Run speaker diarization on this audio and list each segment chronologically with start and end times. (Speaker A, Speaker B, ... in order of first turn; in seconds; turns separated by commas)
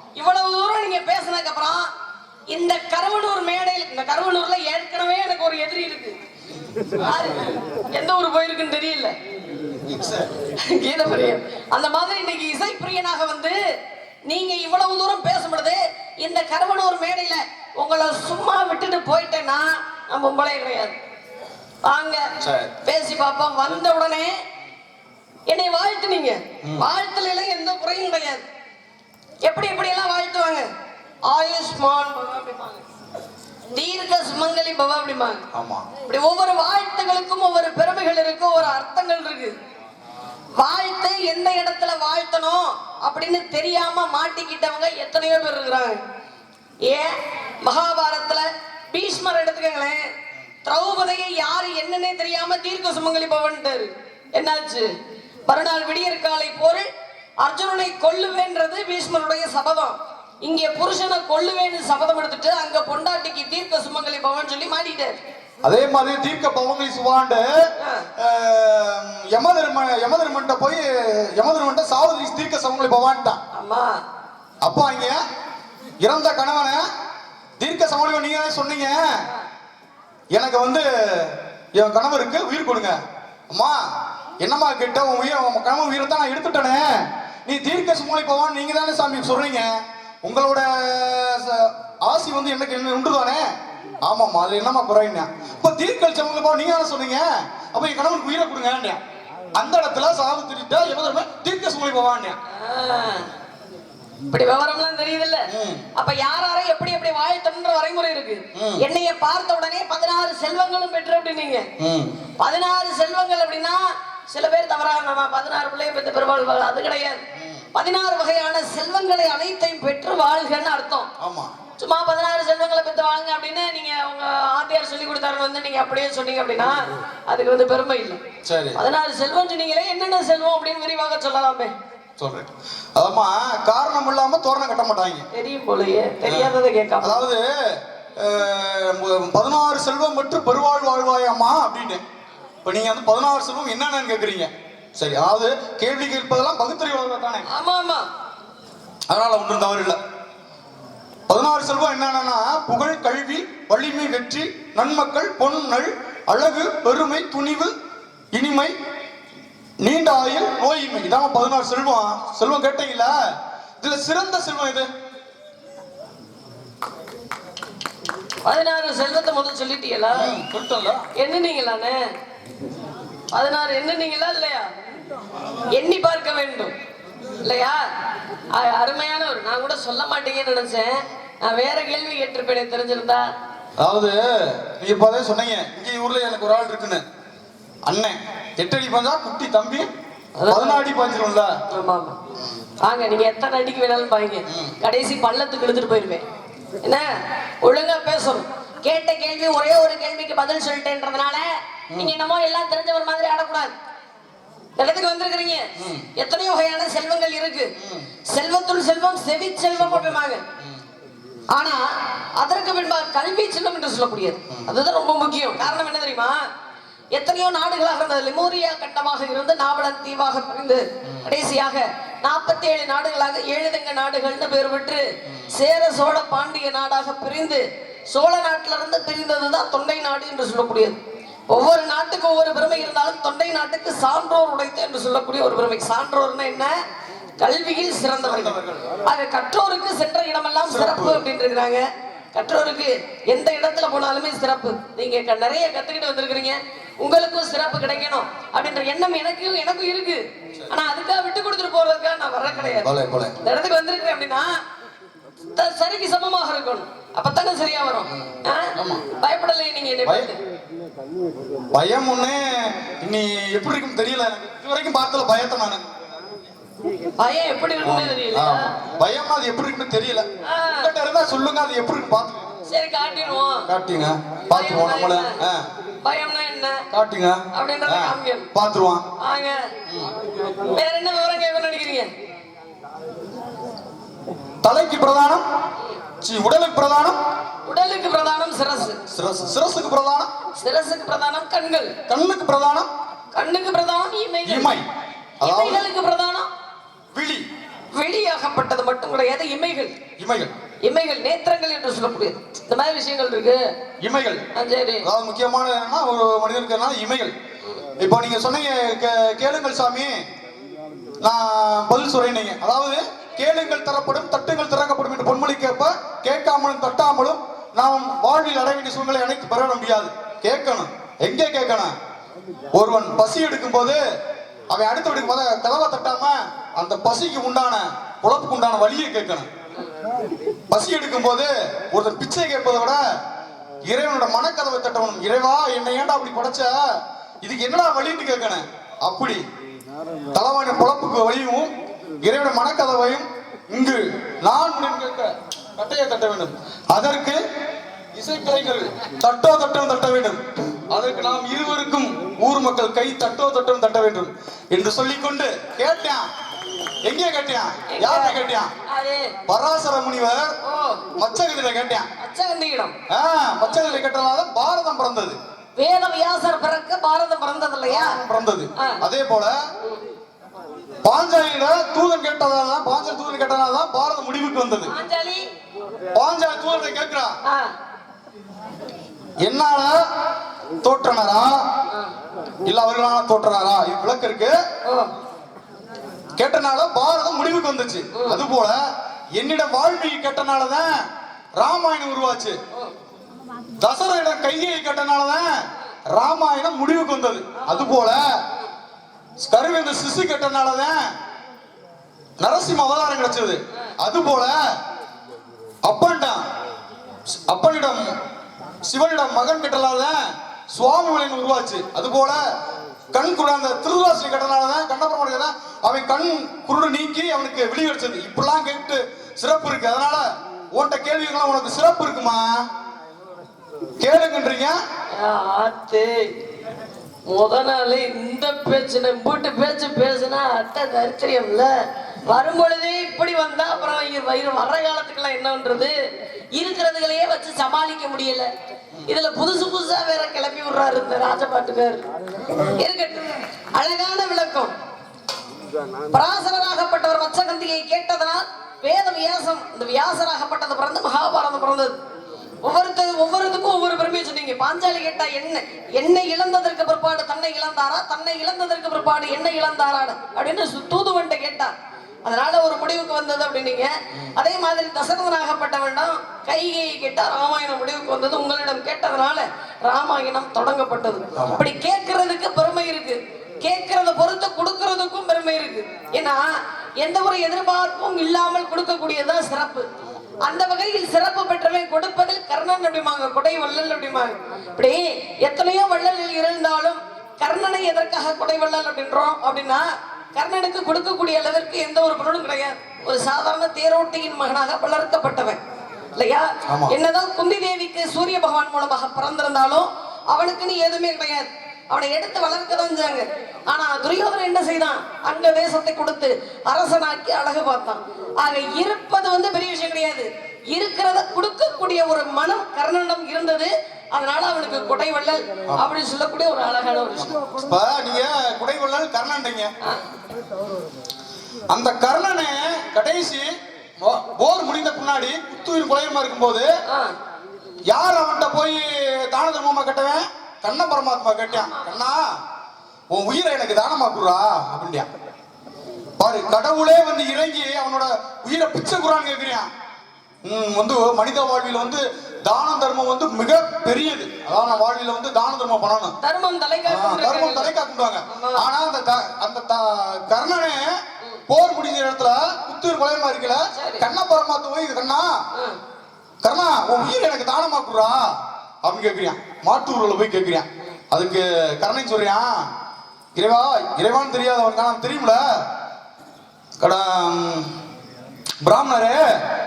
Speaker A: 0.2-1.9, Speaker A: 2.5-6.2, Speaker A: 7.0-9.1, Speaker B: 9.9-10.3, Speaker A: 10.6-13.6, Speaker A: 14.3-21.0, Speaker A: 21.9-22.3, Speaker B: 22.4-22.7, Speaker A: 22.8-24.4, Speaker A: 25.5-28.4, Speaker A: 29.4-30.6, Speaker A: 31.3-32.8, Speaker A: 33.7-35.4, Speaker B: 35.5-35.9, Speaker A: 36.0-39.5, Speaker A: 40.6-46.0, Speaker A: 46.9-50.0, Speaker A: 50.6-54.9, Speaker A: 55.5-56.9, Speaker A: 57.4-65.2, Speaker B: 65.6-73.4, Speaker A: 67.8-68.1, Speaker A: 73.5-74.0, Speaker B: 74.6-75.2, Speaker B: 76.0-76.8, Speaker B: 77.6-79.2, Speaker B: 80.3-83.0, Speaker B: 83.5-83.8, Speaker B: 84.4-93.5, Speaker B: 94.0-99.0, Speaker B: 99.6-102.4, Speaker A: 102.5-103.3, Speaker A: 104.3-111.7, Speaker B: 105.5-105.9, Speaker B: 108.5-108.8, Speaker B: 111.8-112.2, Speaker A: 112.4-117.2, Speaker B: 117.4-117.7, Speaker A: 117.8-121.1, Speaker B: 121.2-121.5, Speaker A: 121.8-128.2, Speaker B: 128.4-128.8, Speaker A: 128.8-131.7, Speaker B: 132.2-135.3, Speaker A: 135.3-137.2, Speaker B: 136.2-142.0, Speaker B: 142.7-147.5, Speaker A: 147.4-148.1, Speaker B: 149.1-150.0, Speaker B: 151.3-157.7, Speaker B: 158.3-158.8, Speaker B: 159.8-164.9, Speaker A: 168.4-170.3, Speaker B: 170.2-171.1, Speaker A: 171.2-172.1, Speaker A: 173.3-174.7, Speaker A: 175.7-176.7, Speaker A: 177.4-177.8, Speaker A: 178.5-183.3, Speaker B: 183.8-187.0, Speaker B: 187.9-189.9, Speaker A: 190.4-190.8, Speaker B: 190.5-191.6, Speaker A: 191.7-192.2, Speaker A: 192.8-196.2, Speaker B: 194.5-194.8, Speaker A: 197.6-203.7, Speaker A: 204.8-207.7, Speaker B: 205.8-206.1, Speaker B: 207.8-208.1, Speaker A: 208.3-210.4, Speaker A: 211.5-211.9, Speaker A: 212.4-216.3, Speaker A: 217.1-231.0, Speaker A: 231.5-236.7, Speaker A: 237.4-241.8, Speaker B: 238.2-238.9, Speaker B: 240.7-241.2, Speaker A: 242.3-252.9, Speaker B: 252.5-253.3, Speaker A: 253.4-254.6, Speaker A: 255.6-260.4, Speaker B: 258.1-259.0, Speaker B: 260.1-260.3, Speaker B: 261.7-265.8, Speaker A: 267.2-268.8, Speaker B: 267.8-272.5, Speaker A: 270.4-270.9, Speaker A: 272.7-273.7, Speaker B: 273.7-275.6, Speaker A: 274.5-275.4, Speaker A: 276.0-276.8, Speaker B: 276.9-279.0, Speaker A: 277.5-278.5, Speaker A: 279.2-279.6, Speaker A: 280.7-282.1, Speaker B: 284.6-285.4, Speaker B: 286.2-287.2, Speaker A: 287.7-289.0, Speaker B: 289.1-290.3, Speaker A: 290.6-291.9, Speaker B: 292.1-292.9, Speaker A: 293.4-294.8, Speaker B: 294.4-294.9, Speaker A: 295.4-296.5, Speaker B: 295.4-295.9, Speaker B: 297.1-297.4, Speaker A: 297.9-299.9, Speaker B: 300.2-300.5, Speaker A: 300.8-303.6, Speaker B: 304.0-304.4, Speaker A: 304.5-305.1, Speaker B: 305.0-307.3, Speaker B: 308.0-310.2, Speaker B: 311.2-321.9, Speaker B: 322.8-324.0, Speaker B: 324.7-329.5, Speaker B: 330.7-333.0, Speaker B: 333.9-336.9, Speaker B: 337.4-339.4, Speaker B: 340.3-341.7, Speaker B: 342.2-347.4, Speaker B: 348.1-356.3, Speaker B: 357.0-358.7, Speaker A: 357.9-359.3, Speaker B: 359.5-360.6, Speaker A: 360.6-361.0, Speaker B: 361.1-362.1, Speaker A: 362.2-362.9, Speaker B: 363.1-365.4, Speaker A: 363.7-364.0, Speaker A: 365.8-368.2, Speaker B: 367.9-369.6, Speaker A: 368.8-369.0, Speaker B: 371.0-374.9, Speaker A: 374.9-375.5, Speaker B: 376.1-377.4, Speaker B: 379.4-380.0, Speaker B: 380.8-381.6, Speaker B: 382.7-384.6, Speaker A: 384.9-385.1, Speaker B: 386.4-388.8, Speaker A: 388.1-388.4, Speaker B: 389.4-391.1, Speaker B: 391.6-392.6, Speaker B: 393.8-398.4, Speaker B: 399.4-401.1, Speaker B: 402.4-404.6, Speaker B: 405.9-406.4, Speaker B: 407.3-408.1, Speaker B: 408.9-412.4, Speaker B: 413.1-422.6, Speaker B: 424.0-424.8, Speaker A: 425.1-426.3, Speaker A: 427.3-431.7, Speaker A: 432.2-435.9, Speaker A: 436.6-438.5, Speaker A: 439.1-442.0, Speaker A: 442.6-444.7, Speaker A: 446.1-452.0, Speaker A: 452.6-461.7, Speaker A: 462.2-479.9, Speaker B: 471.4-471.6, Speaker A: 480.4-495.6, Speaker A: 496.2-517.4, Speaker B: 496.7-497.0, Speaker B: 517.2-519.7, Speaker B: 521.7-526.7, Speaker A: 526.9-527.1, Speaker B: 527.9-532.3, Speaker A: 531.5-531.9, Speaker B: 533.1-535.1, Speaker B: 536.2-539.7, Speaker B: 540.5-546.1, Speaker A: 546.2-547.7, Speaker B: 546.9-555.4, Speaker A: 548.3-548.7, Speaker A: 553.7-554.0, Speaker B: 556.4-562.7, Speaker B: 563.3-565.6, Speaker B: 566.8-567.7, Speaker B: 568.6-569.4